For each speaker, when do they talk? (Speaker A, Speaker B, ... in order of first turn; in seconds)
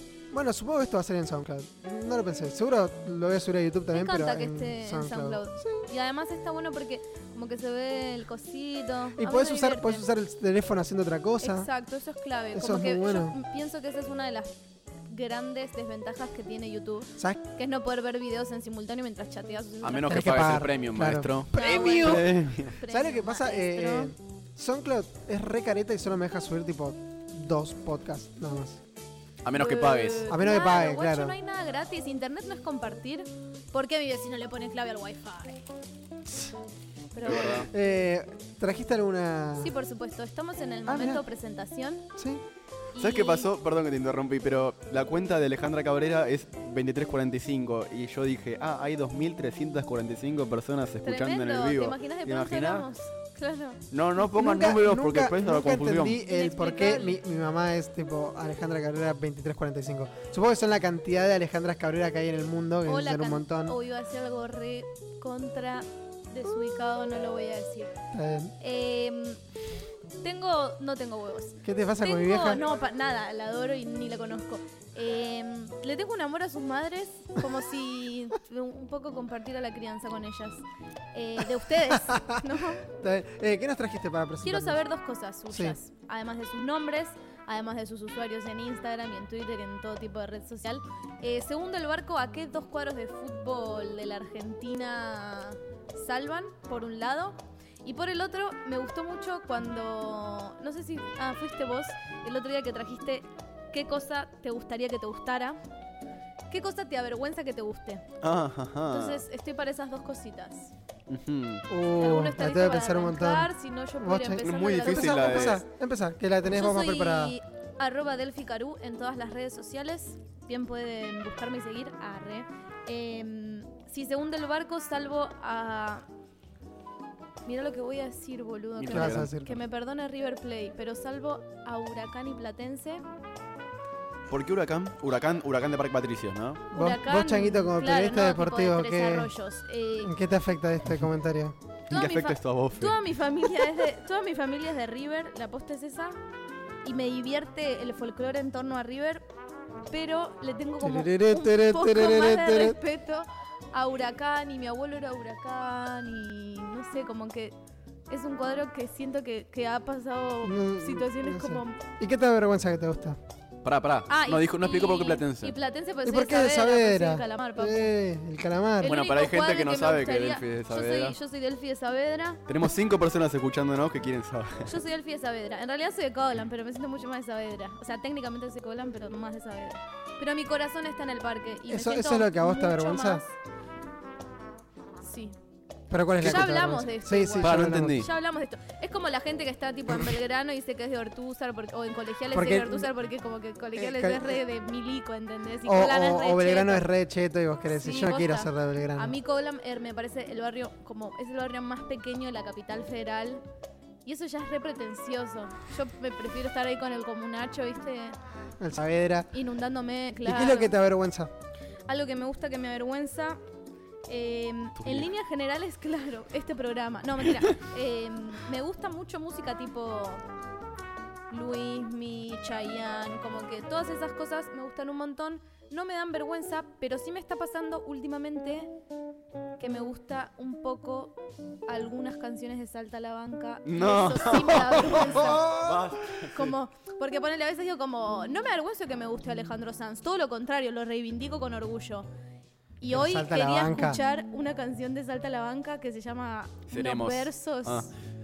Speaker A: 0.3-5.8, 9.2-11.7, 12.5-13.4, 17.2-17.4, 20.1-28.8, 30.3-31.3, 37.3-39.7, 40.9-41.2, 42.1-42.4, 54.2-63.8, 68.1-68.5, 71.6-72.6, 81.9-84.8, 85.5-85.8, 111.7-117.3, 128.9-129.6, 136.7-139.3, 140.0-141.6, 150.8-152.8, 160.4-163.2, 166.0-169.0, 181.7-183.2, 185.9-188.0, 192.3-192.9, 193.7-194.4, 195.6-199.1, 208.6-209.3, 210.2-211.3, 235.3-235.7, 242.9-244.0
Speaker B: 3.9-10.0, 11.4-14.5, 15.1-20.4, 21.5-24.1, 29.5-35.6, 37.1-37.6, 39.6-42.1, 42.9-43.5, 51.0-53.8, 56.2-57.2, 62.9-67.9, 68.6-69.4, 70.2-80.6, 81.1-82.8, 84.4-105.6, 106.5-108.0, 108.9-110.7, 111.9-115.6, 116.5-126.0, 127.5-133.0, 136.7-140.1, 141.9-146.2, 146.8-149.2, 149.9-157.5, 158.1-161.8, 164.1-167.9, 168.8-172.4, 174.7-183.3, 185.0-185.3, 186.2-196.9, 197.7-203.4, 204.0-208.2, 209.3-210.7, 211.9-213.4, 214.1-220.2, 221.3-228.7, 229.6-231.2, 231.7-235.7, 236.2-242.1, 242.8-247.9
Speaker C: 19.8-22.8, 29.4-30.2, 37.2-37.7, 43.0-52.9, 53.9-56.2, 108.2-109.2, 111.1-111.7, 114.4-115.6, 128.8-129.3, 134.3-136.7, 141.9-143.0, 163.6-165.5, 168.8-171.2, 172.5-174.7, 187.4-188.1, 214.8-215.1, 233.6-236.6, 246.7-247.9